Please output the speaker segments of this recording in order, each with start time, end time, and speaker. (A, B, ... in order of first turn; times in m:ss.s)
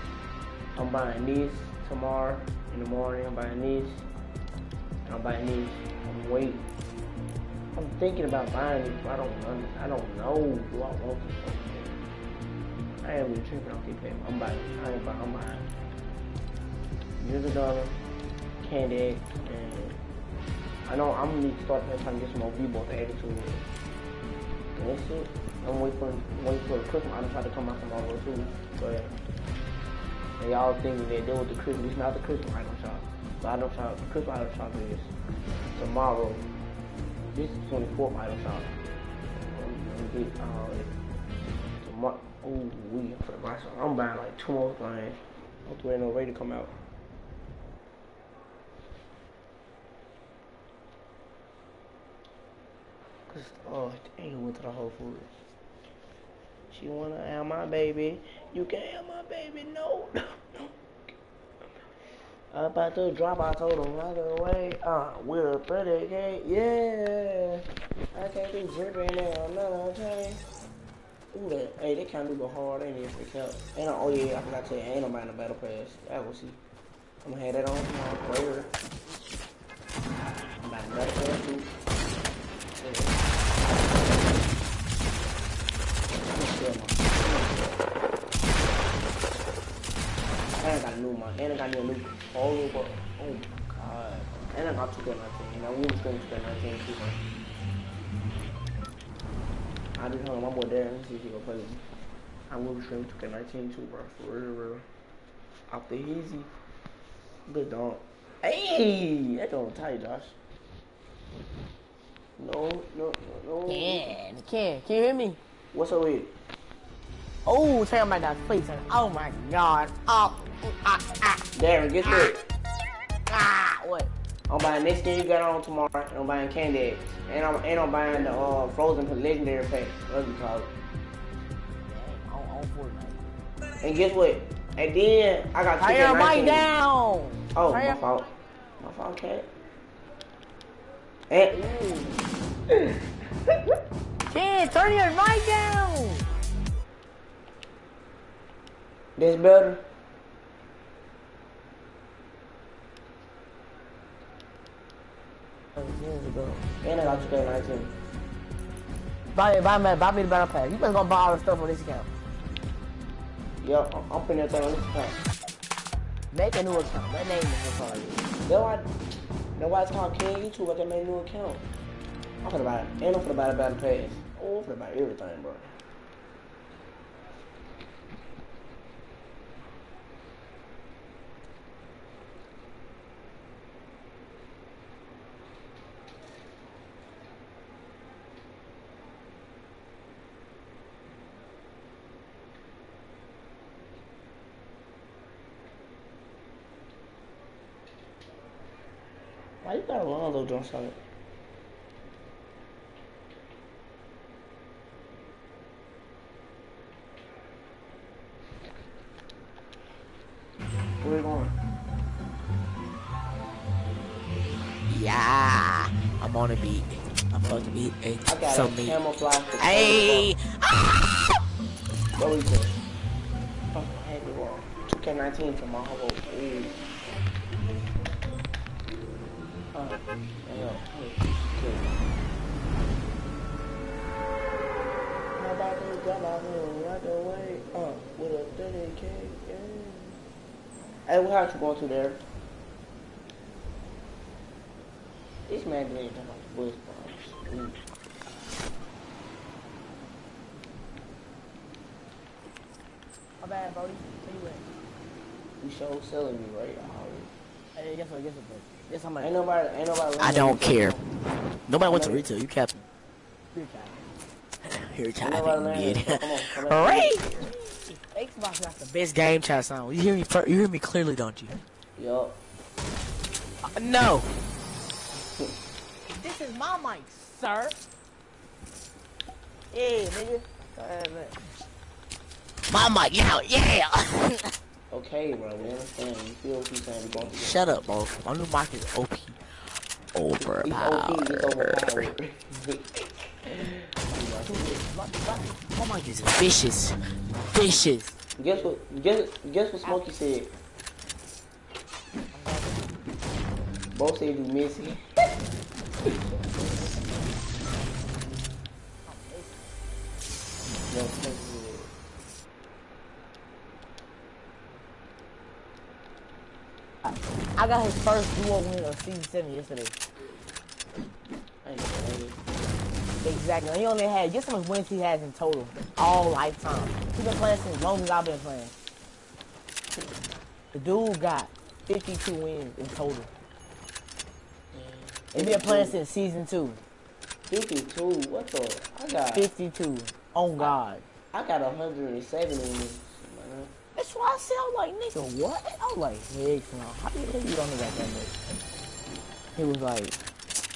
0:00.8-0:04.0 A
0:05.0-0:06.7 A
0:07.8-0:11.9 A
0:13.0-0:15.7 A
0:17.2-0:18.0 A
0:18.6-0:20.0 A
0:20.8-0:23.6 A
0:24.8-0:29.2 A
0:30.4-0:35.1 A
0:35.7-0:36.5 A
0:37.3-0:38.8 A
0:39.3-0:40.9 A
0:41.8-0:46.8 A
0:53.3-0:55.3 A
0:56.7-1:00.7 A
1:02.5-1:07.6 A
1:08.1-1:10.4 A
1:11.3-1:16.6 A
1:17.2-1:18.7 A
1:20.6-1:21.7 A
1:22.8-1:24.0 A
1:26.2-1:27.8 A
1:30.6-1:37.2 A
1:39.9-1:41.8 A
1:42.5-1:44.8 A
1:45.7-1:46.5 A
1:47.5-1:50.4 A
1:52.4-1:54.2 A
1:53.7-1:55.4 B
1:55.7-1:56.3 A
1:57.5-2:01.4 B
2:01.6-2:02.4 A
2:03.3-2:04.1 B
2:04.5-2:10.7 A
2:08.1-2:08.5 B
2:11.9-2:13.2 B
2:13.8-2:16.7 A
2:15.8-2:18.0 B
2:17.5-2:18.3 A
2:18.8-2:19.5 A
2:21.3-2:21.6 A
2:21.5-2:22.2 B
2:24.3-2:26.3 B
2:29.2-2:29.8 A
2:35.8-2:37.4 B
2:36.8-2:37.9 A
2:39.3-2:42.1 B
2:43.6-2:45.2 A
2:46.3-2:48.3 B
2:48.4-2:48.9 A
2:49.6-2:51.6 A
2:52.4-2:55.7 A
3:19.6-3:21.0 A
3:31.0-3:31.6 A
3:34.9-3:39.0 B
3:38.3-3:40.3 A
3:39.6-3:41.2 B
3:42.2-3:42.8 A
3:43.7-3:46.8 A
3:49.7-3:52.0 A
3:55.4-4:00.2 A
4:01.1-4:02.2 A
4:05.5-4:07.8 A
4:13.4-4:14.6 B
4:15.6-4:17.3 A
4:17.8-4:19.3 B
4:19.2-4:21.1 A
4:20.2-4:21.0 B
4:21.7-4:22.8 B
4:21.8-4:22.3 A
4:23.5-4:24.0 B
4:24.7-4:31.6 B
4:25.2-4:27.4 A
4:32.0-4:32.4 A
4:33.6-4:34.3 B
4:36.1-4:37.8 B
4:39.7-4:41.4 B
4:42.7-4:44.5 B
4:44.9-4:47.6 A
4:47.2-4:49.4 B
4:50.1-4:52.1 B
4:50.4-4:54.8 A
4:54.5-4:58.2 B
4:58.4-5:00.5 A
5:02.3-5:03.0 B
5:03.9-5:05.0 A
5:09.1-5:09.8 B
5:10.9-5:11.9 A
5:17.0-5:19.9 B
5:21.6-5:22.4 A
5:23.2-5:28.7 B
5:30.7-5:33.3 B
5:34.7-5:36.0 A
5:35.3-5:36.8 B
5:37.5-5:39.5 A
5:39.3-5:41.0 B
5:41.3-5:43.7 A
5:44.0-5:48.3 B
5:49.6-5:50.2 B